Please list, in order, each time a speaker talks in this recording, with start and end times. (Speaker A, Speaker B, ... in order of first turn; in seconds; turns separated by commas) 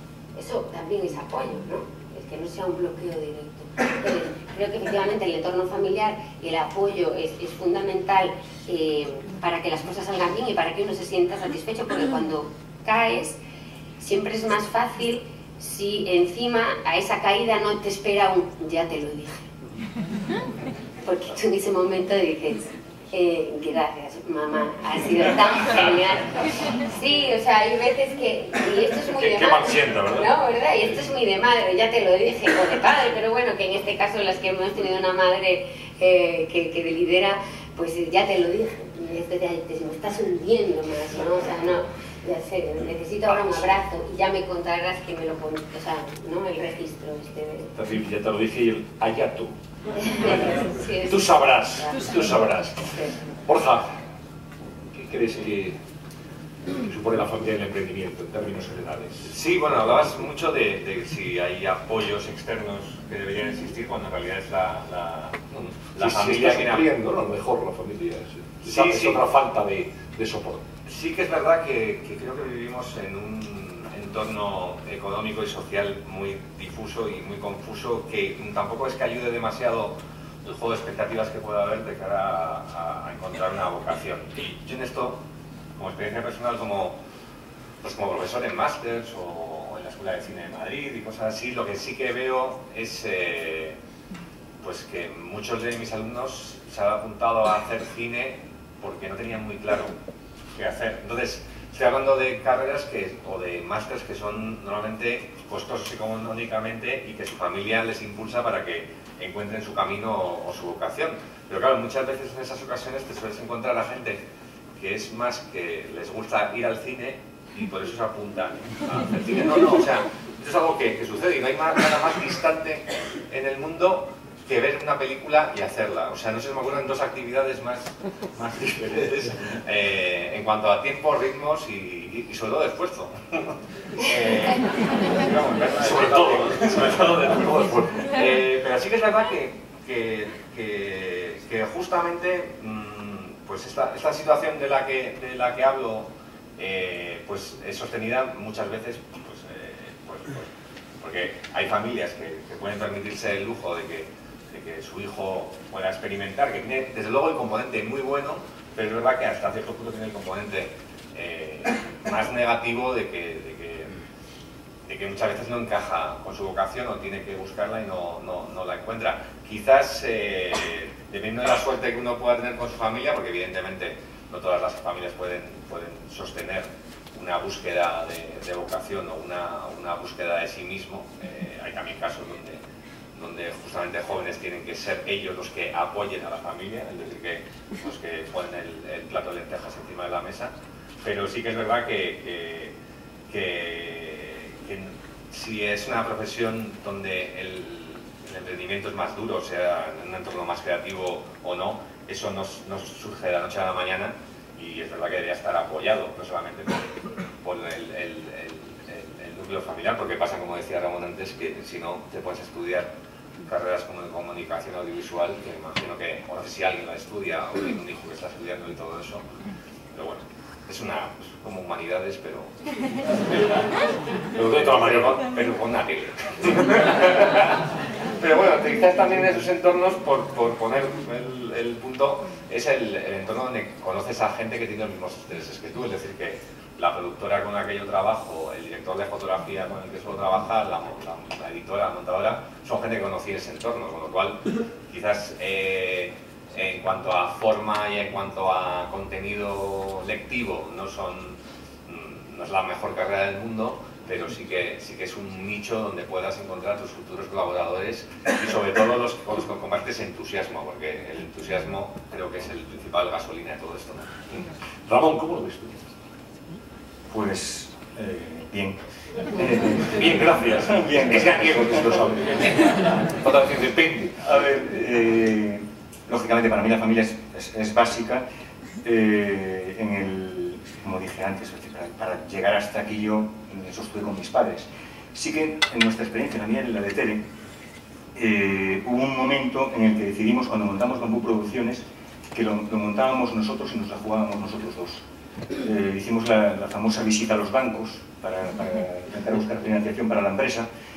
Speaker A: 0.3-13.4, Speaker A: 14.0-19.5, Speaker A: 21.0-47.7, Speaker B: 29.1-30.3, Speaker B: 43.3-43.6, Speaker B: 47.7-49.5, Speaker A: 50.0-52.2, Speaker B: 50.2-52.8, Speaker A: 52.8-53.1, Speaker B: 53.5-53.9, Speaker B: 54.9-55.8, Speaker B: 56.8-59.3, Speaker C: 59.3-66.9, Speaker B: 66.0-70.6, Speaker C: 68.6-69.2, Speaker C: 70.9-85.2, Speaker C: 85.8-87.0, Speaker C: 87.8-93.8, Speaker C: 94.6-99.9, Speaker C: 100.5-114.2, Speaker C: 114.8-150.5, Speaker B: 135.8-137.9, Speaker C: 151.0-163.9, Speaker C: 164.9-182.6, Speaker C: 183.1-192.7, Speaker C: 193.3-206.9, Speaker C: 207.4-212.9, Speaker C: 213.5-219.2, Speaker C: 219.9-222.5, Speaker C: 223.3-223.7, Speaker B: 224.4-225.1, Speaker C: 224.4-227.6, Speaker C: 228.2-264.5, Speaker B: 264.9-265.9, Speaker D: 267.1-268.8, Speaker D: 269.3-272.0, Speaker B: 269.9-274.2, Speaker D: 274.2-278.2, Speaker D: 278.8-287.2, Speaker D: 288.1-295.0, Speaker D: 295.6-300.7